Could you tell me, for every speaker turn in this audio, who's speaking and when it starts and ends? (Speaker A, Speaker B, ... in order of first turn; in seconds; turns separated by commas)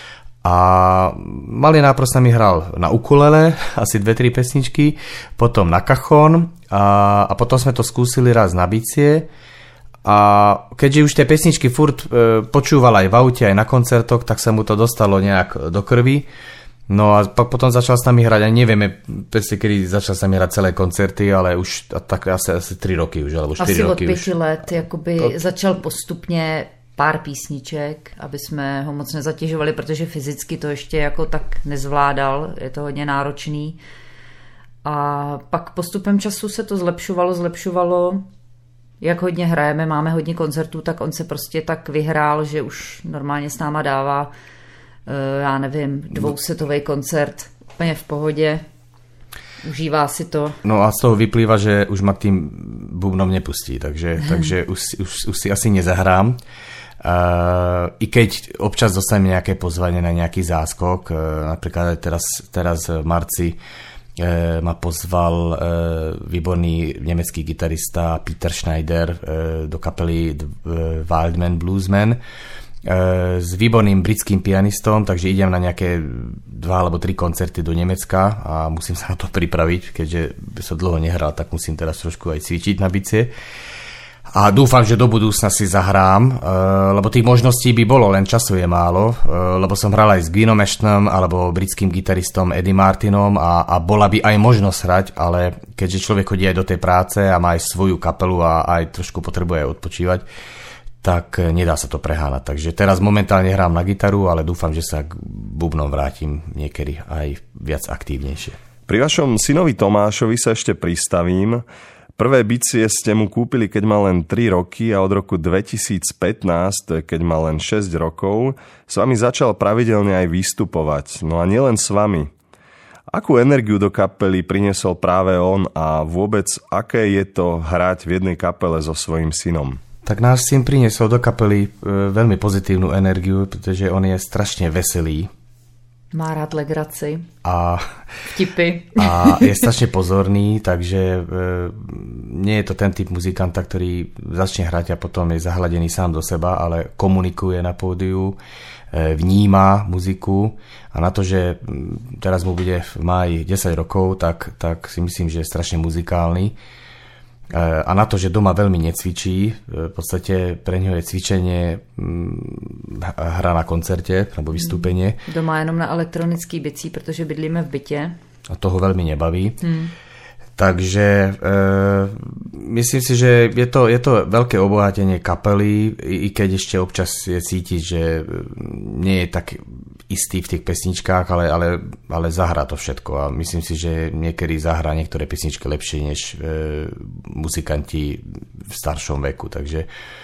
Speaker A: 0.4-9.3, Speaker A: 10.0-16.3, Speaker A: 16.9-24.3, Speaker B: 23.6-33.8, Speaker B: 34.9-38.2, Speaker B: 39.0-44.3, Speaker B: 45.1-48.6, Speaker B: 49.6-50.6, Speaker A: 50.6-56.4, Speaker A: 57.0-63.6, Speaker A: 64.2-72.2, Speaker A: 72.8-83.3, Speaker A: 84.3-100.2, Speaker A: 101.0-108.6, Speaker C: 108.9-111.6, Speaker C: 112.2-122.3, Speaker C: 123.1-129.8, Speaker A: 130.1-135.3, Speaker B: 136.1-137.3, Speaker A: 137.4-137.9, Speaker B: 138.3-139.6, Speaker A: 138.9-148.4, Speaker A: 148.9-156.6, Speaker A: 157.5-165.2, Speaker B: 164.6-168.2, Speaker A: 168.5-169.6, Speaker B: 169.6-169.9, Speaker A: 170.6-189.9